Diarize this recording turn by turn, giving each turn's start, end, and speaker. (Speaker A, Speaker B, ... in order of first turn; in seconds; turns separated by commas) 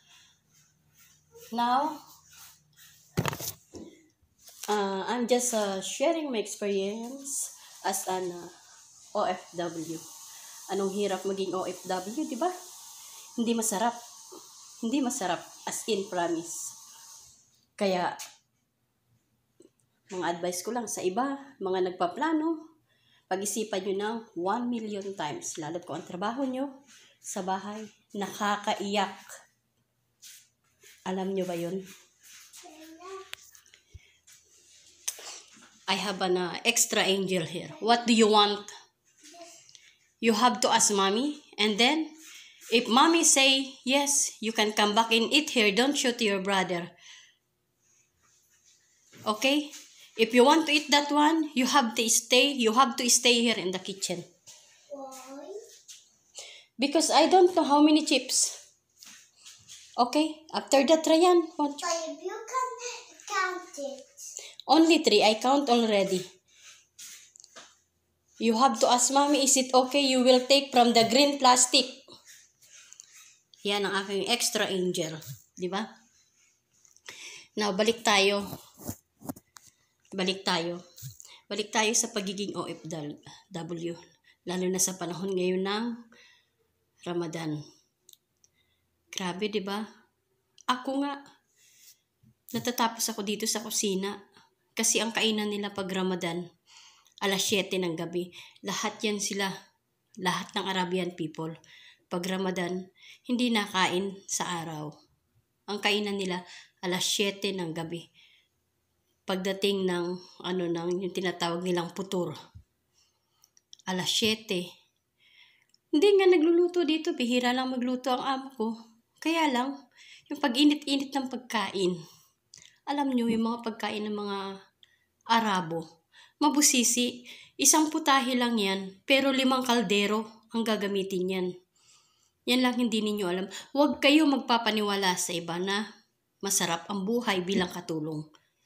Speaker A: 1.5-2.0, Speaker A: 4.7-8.5, Speaker A: 9.2-10.0, Speaker A: 10.7-12.5, Speaker A: 13.4-14.0, Speaker A: 14.8-16.7, Speaker A: 17.8-18.1, Speaker A: 20.1-22.6, Speaker A: 23.3-26.7, Speaker A: 27.3-29.2, Speaker A: 31.1-31.8, Speaker B: 32.7-33.2, Speaker A: 35.9-38.7, Speaker A: 40.2-42.1, Speaker A: 42.7-46.9, Speaker A: 49.3-54.2, Speaker B: 54.9-55.6, Speaker A: 56.8-58.5, Speaker A: 60.0-62.1, Speaker B: 62.0-64.0, Speaker A: 64.7-66.3, Speaker A: 68.4-72.0, Speaker A: 73.7-75.9, Speaker A: 77.6-78.4, Speaker A: 80.2-80.8, Speaker A: 81.5-85.9, Speaker A: 87.0-87.6, Speaker A: 89.1-89.8, Speaker A: 90.7-91.2, Speaker A: 92.5-94.2, Speaker A: 94.8-96.4, Speaker A: 97.2-99.5, Speaker A: 100.2-101.5, Speaker A: 102.1-102.8, Speaker A: 103.3-104.9, Speaker A: 105.7-108.0, Speaker A: 109.3-112.4, Speaker A: 113.9-114.6, Speaker A: 116.0-119.7, Speaker A: 120.3-122.0, Speaker A: 122.9-124.4, Speaker A: 125.3-125.8, Speaker A: 126.4-131.5, Speaker A: 132.5-135.8, Speaker A: 136.4-138.2